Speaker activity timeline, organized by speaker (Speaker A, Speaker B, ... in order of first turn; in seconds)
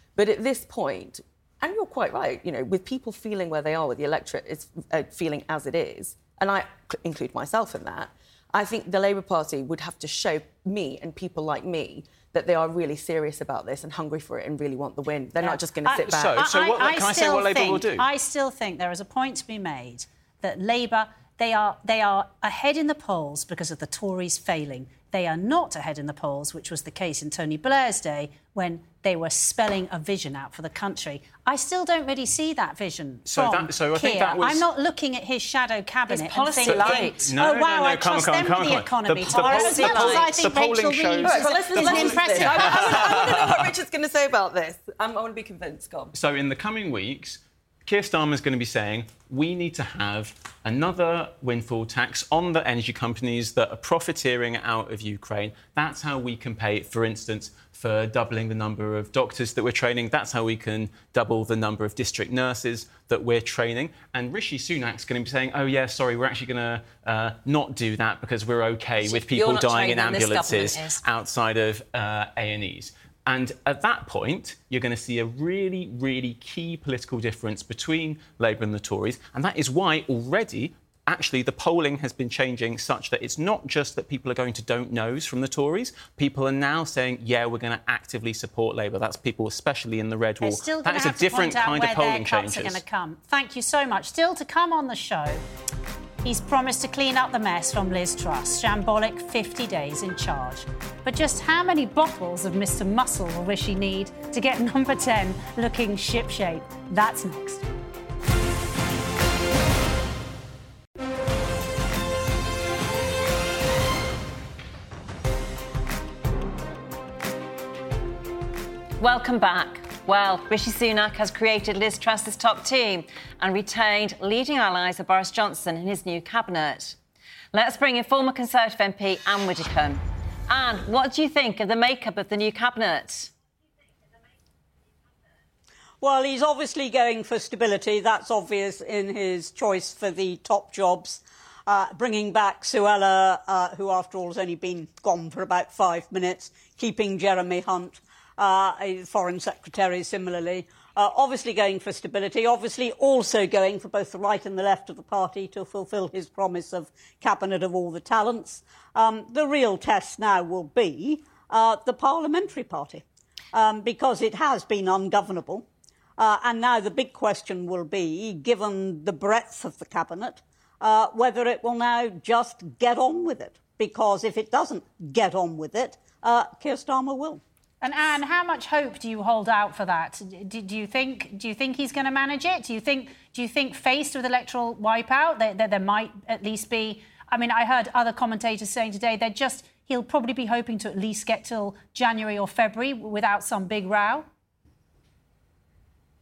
Speaker A: 0.1-16.5, 41.2-46.1
Speaker B: 15.4-43.1, 90.4-95.4, 96.2-107.6, 177.8-194.3
Speaker C: 16.1-18.1, 33.2-34.6, 36.6-43.7, 46.1-92.8
Speaker D: 36.1-37.3, 39.2-40.3, 69.0-71.0, 119.0-127.0, 127.5-133.3
Speaker E: 136.0-165.6, 166.2-177.4